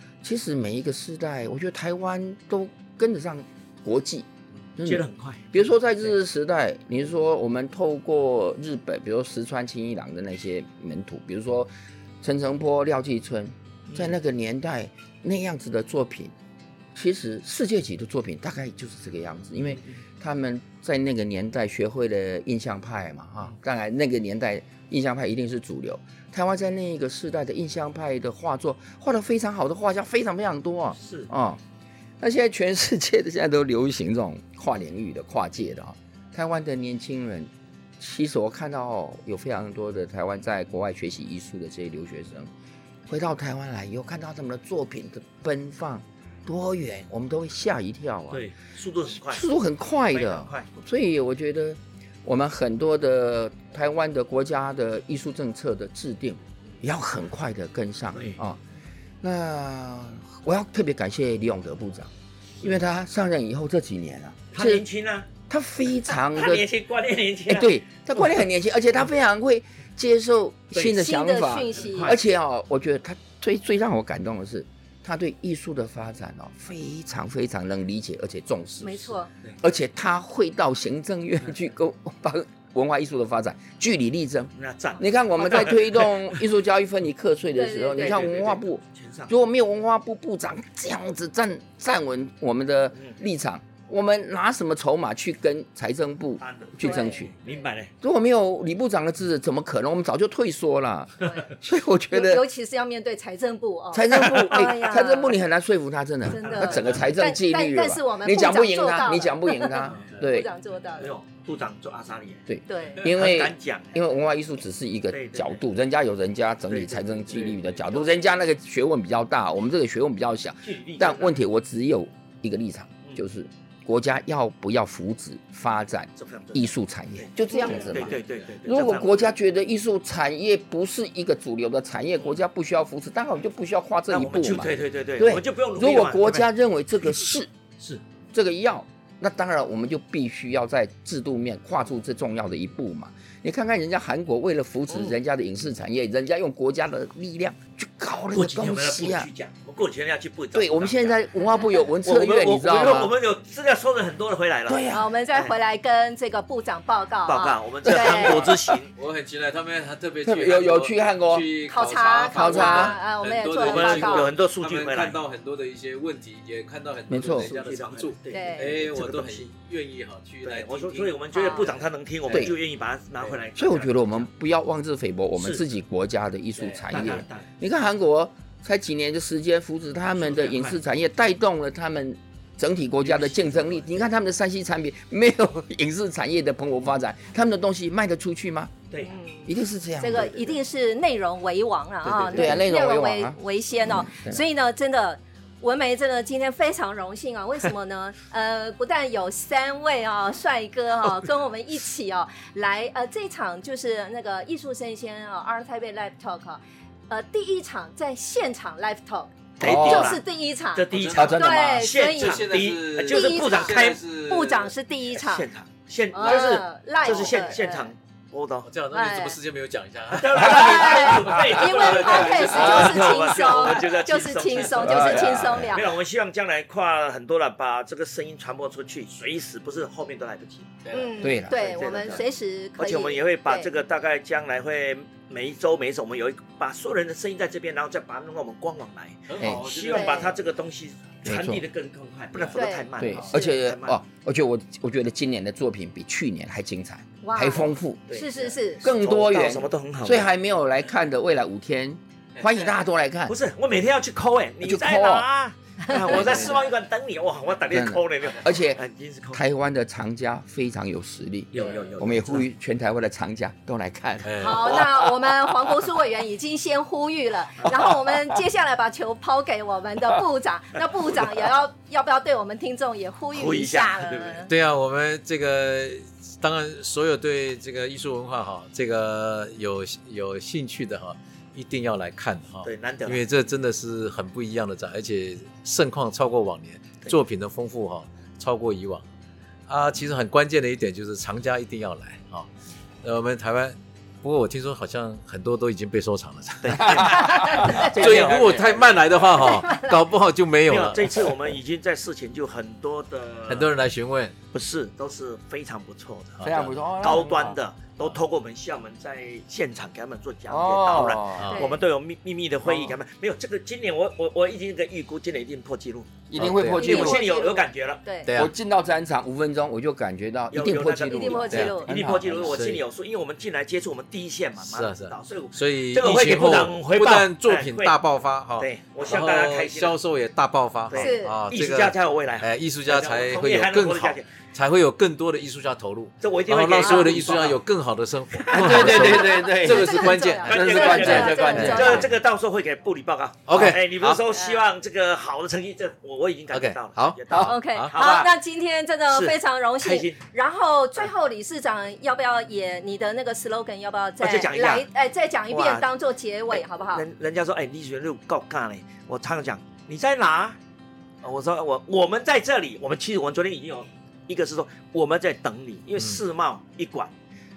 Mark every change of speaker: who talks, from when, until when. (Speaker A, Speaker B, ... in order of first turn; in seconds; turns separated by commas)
Speaker A: 0.2-11.7, Speaker B: 4.8-5.5, Speaker A: 12.2-16.3, Speaker B: 13.9-14.2, Speaker A: 16.9-31.6, Speaker B: 31.0-31.3, Speaker A: 32.2-42.5, Speaker A: 43.1-48.5, Speaker B: 48.3-49.5, Speaker A: 49.2-58.6, Speaker B: 50.1-50.7, Speaker A: 59.2-64.8, Speaker B: 64.5-65.3, Speaker A: 65.5-66.7, Speaker B: 66.3-68.4, Speaker A: 67.5-97.3, Speaker C: 70.9-72.1, Speaker B: 71.8-72.2, Speaker C: 78.8-79.3, Speaker B: 84.5-86.4, Speaker C: 87.5-88.2, Speaker B: 88.0-89.3, Speaker B: 96.4-97.9, Speaker C: 96.8-97.3, Speaker A: 98.0-102.4, Speaker C: 102.1-105.4, Speaker A: 103.9-110.5, Speaker C: 106.3-111.1, Speaker B: 106.5-107.0, Speaker B: 111.0-112.5, Speaker A: 112.5-137.5, Speaker C: 112.7-113.1, Speaker B: 113.0-114.0, Speaker B: 115.1-115.6, Speaker B: 116.7-118.0, Speaker B: 120.6-121.4, Speaker B: 126.2-129.3, Speaker B: 134.1-136.5, Speaker A: 138.3-149.3, Speaker B: 148.3-151.2, Speaker A: 150.5-153.1, Speaker B: 152.0-155.5, Speaker A: 154.7-155.1, Speaker C: 154.9-158.5, Speaker B: 157.3-158.9, Speaker A: 157.9-158.7, Speaker D: 158.9-172.5, Speaker A: 160.2-161.5, Speaker C: 161.7-164.3, Speaker A: 162.3-163.0, Speaker B: 163.6-165.2, Speaker A: 167.1-167.5, Speaker B: 167.3-169.5, Speaker C: 168.3-168.7, Speaker B: 170.4-174.3, Speaker C: 171.3-171.7, Speaker A: 172.3-172.6, Speaker A: 173.6-188.8, Speaker D: 176.6-177.0, Speaker B: 176.9-177.5, Speaker B: 180.3-180.8, Speaker B: 183.1-184.0, Speaker B: 188.9-189.2, Speaker C: 189.0-212.4, Speaker A: 189.5-190.5, Speaker D: 192.2-192.6, Speaker A: 192.3-194.4, Speaker A: 209.6-210.2, Speaker B: 209.6-210.2, Speaker B: 210.7-214.0, Speaker D: 210.9-214.7, Speaker A: 211.1-211.8, Speaker C: 213.1-215.5, Speaker B: 215.1-218.7, Speaker C: 216.1-217.9, Speaker D: 218.6-223.3, Speaker C: 218.9-219.4, Speaker B: 220.1-230.8, Speaker C: 220.3-225.9, Speaker A: 222.5-222.9, Speaker A: 224.8-225.8, Speaker D: 230.8-231.1, Speaker C: 230.9-233.7, Speaker A: 231.2-231.6, Speaker B: 231.5-232.2, Speaker B: 232.8-244.0, Speaker D: 239.3-240.4, Speaker C: 239.9-240.4, Speaker A: 241.2-241.7, Speaker C: 242.5-243.6, Speaker A: 243.0-248.2, Speaker D: 243.1-243.4, Speaker C: 247.2-248.8, Speaker B: 248.1-250.3, Speaker A: 248.8-253.3, Speaker B: 253.3-259.4, Speaker A: 254.6-255.3, Speaker D: 256.1-256.7, Speaker A: 256.1-256.6, Speaker A: 257.7-258.8, Speaker A: 259.3-265.0, Speaker B: 261.5-262.4, Speaker D: 264.2-264.7, Speaker C: 264.4-274.5, Speaker A: 267.7-268.2, Speaker B: 273.3-274.5, Speaker D: 274.5-289.1, Speaker B: 282.6-283.2, Speaker D: 289.7-292.5, Speaker D: 293.0-301.4, Speaker B: 296.6-299.4, Speaker A: 296.8-297.9, Speaker C: 297.1-297.9, Speaker C: 299.4-300.0, Speaker B: 300.7-303.7, Speaker D: 303.5-304.4, Speaker B: 304.5-318.0, Speaker D: 306.4-306.9, Speaker A: 306.4-307.6, Speaker A: 310.5-311.5, Speaker D: 311.4-311.7, Speaker C: 311.5-311.8, Speaker A: 312.7-312.9, Speaker A: 316.3-317.3, Speaker D: 316.4-317.1, Speaker C: 316.8-318.3, Speaker D: 318.2-318.5, Speaker A: 318.3-322.6, Speaker B: 320.5-328.0, Speaker C: 321.1-322.0, Speaker D: 322.4-322.8, Speaker D: 324.6-342.1, Speaker B: 328.6-329.9, Speaker B: 330.9-334.3, Speaker C: 330.9-331.4, Speaker B: 336.2-337.6, Speaker C: 336.8-337.1, Speaker B: 338.4-339.2, Speaker A: 338.5-341.9, Speaker C: 338.8-342.1, Speaker B: 340.4-348.3, Speaker D: 343.5-344.2, Speaker C: 344.3-344.6, Speaker D: 346.5-348.0, Speaker C: 347.4-357.1, Speaker B: 349.1-350.2, Speaker B: 354.2-354.9, Speaker B: 355.5-355.9, Speaker B: 356.5-360.6, Speaker B: 361.2-367.1